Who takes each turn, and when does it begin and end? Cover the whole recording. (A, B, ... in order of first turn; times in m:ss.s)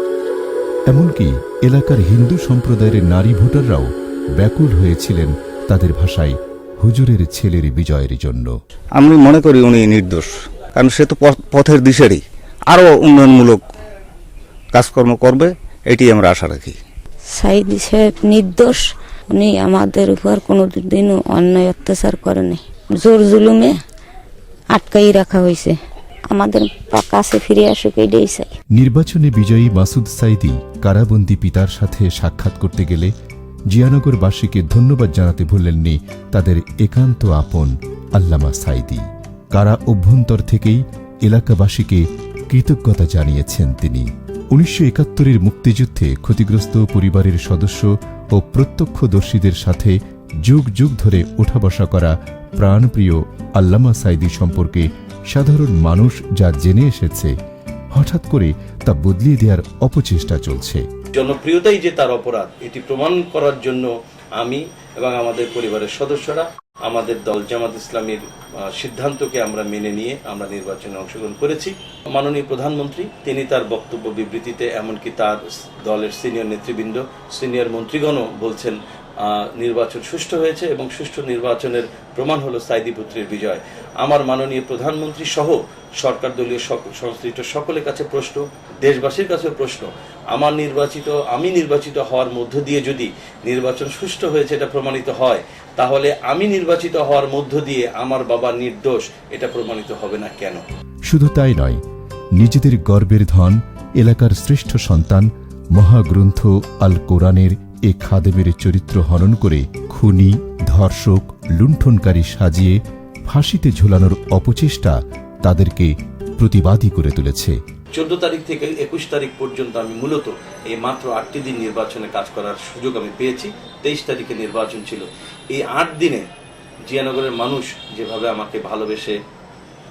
0:00.9-0:08.5 A
0:09.0-0:13.6 B
0:14.7-0:16.8 B
0:17.4-0:23.8 C
0:24.7-0:25.8 C
0:26.3-0:28.5 C
0:28.7-0:33.1 A
0:33.7-0:57.3 A
0:57.9-1:00.8 A
1:01.1-1:40.6 D
1:41.1-1:41.8 A
1:42.4-1:57.6 A
1:57.9-2:06.2 D
2:06.8-2:09.2 D